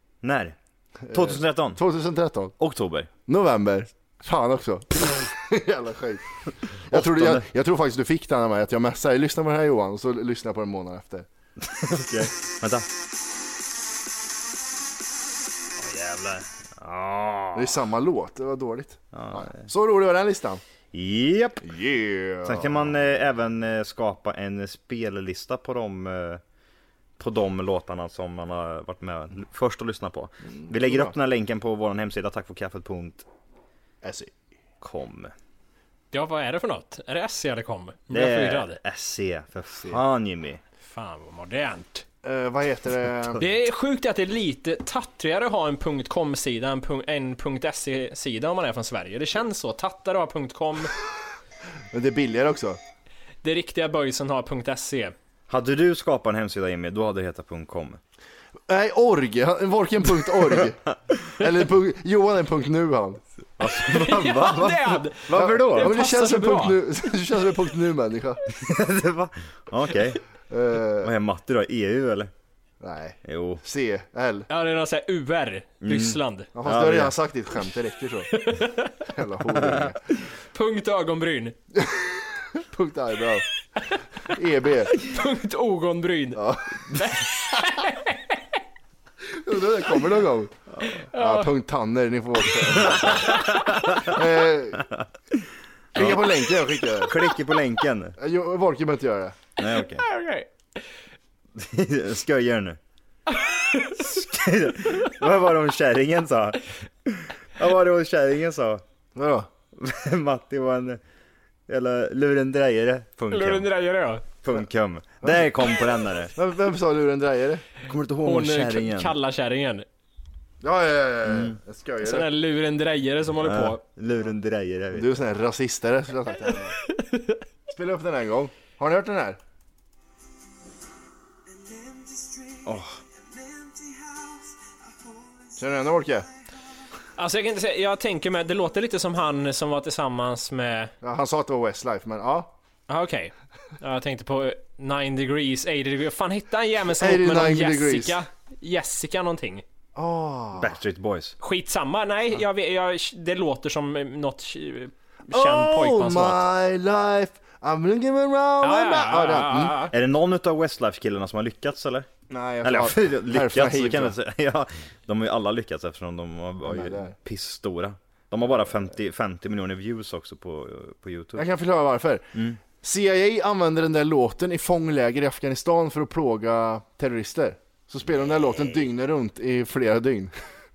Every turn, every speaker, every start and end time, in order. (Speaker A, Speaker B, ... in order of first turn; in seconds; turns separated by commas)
Speaker A: 0.2-0.6, Speaker B: 1.1-2.5, Speaker A: 1.1-1.8, Speaker A: 2.6-3.1, Speaker B: 3.3-11.3, Speaker A: 6.9-7.5, Speaker A: 11.6-12.9, Speaker A: 15.8-17.8, Speaker B: 17.5-20.6, Speaker A: 19.1-19.7, Speaker A: 20.9-21.6, Speaker B: 21.6-22.9, Speaker A: 22.4-26.4, Speaker A: 27.2-33.2, Speaker B: 30.5-31.1, Speaker B: 34.0-34.3, Speaker A: 34.8-35.3, Speaker C: 36.1-38.8, Speaker A: 38.1-40.6, Speaker C: 40.9-42.0, Speaker B: 42.2-43.4, Speaker C: 43.4-50.9, Speaker B: 51.9-52.8, Speaker C: 53.4-55.1, Speaker A: 55.5-58.0, Speaker B: 58.7-60.8, Speaker B: 61.4-63.2, Speaker A: 63.6-65.9, Speaker C: 63.7-66.8, Speaker B: 65.3-68.4, Speaker A: 68.5-70.2, Speaker B: 70.5-71.1, Speaker A: 71.0-72.3, Speaker B: 72.8-74.5, Speaker A: 73.2-73.6, Speaker C: 74.5-76.5, Speaker A: 75.8-77.1, Speaker B: 76.5-78.3, Speaker C: 78.3-78.9, Speaker B: 79.1-80.0, Speaker A: 79.6-79.9, Speaker C: 80.5-81.5, Speaker B: 81.7-83.5, Speaker B: 84.3-84.9, Speaker C: 85.0-86.4, Speaker B: 86.3-86.8, Speaker C: 86.9-88.3, Speaker B: 89.3-93.3, Speaker C: 91.0-91.5, Speaker A: 92.9-94.2, Speaker B: 94.0-94.8, Speaker A: 95.9-98.2, Speaker B: 95.9-97.1, Speaker B: 98.2-99.4, Speaker A: 99.6-100.0, Speaker C: 99.8-100.5, Speaker A: 101.5-102.8, Speaker C: 103.4-104.0, Speaker A: 103.9-108.8, Speaker B: 109.1-109.5, Speaker A: 109.8-111.0, Speaker A: 111.7-113.7, Speaker C: 113.3-114.3, Speaker A: 114.4-116.3, Speaker B: 115.2-115.5, Speaker B: 116.3-117.6, Speaker A: 117.8-119.1, Speaker C: 118.2-119.8, Speaker B: 120.6-122.2, Speaker A: 121.2-121.6, Speaker C: 122.0-123.8, Speaker A: 123.4-125.1, Speaker B: 124.9-126.8, Speaker C: 126.8-127.4, Speaker B: 127.7-129.4, Speaker A: 132.7-133.0, Speaker B: 135.6-136.3, Speaker C: 137.2-140.9, Speaker B: 141.0-142.5, Speaker C: 142.9-149.6, Speaker B: 146.9-148.2, Speaker B: 149.9-150.8, Speaker A: 150.6-151.3, Speaker C: 151.4-156.4, Speaker B: 155.3-159.8, Speaker C: 158.6-159.9, Speaker A: 159.9-162.1, Speaker B: 162.3-164.2, Speaker A: 162.6-171.4, Speaker B: 166.6-167.2, Speaker B: 171.3-180.3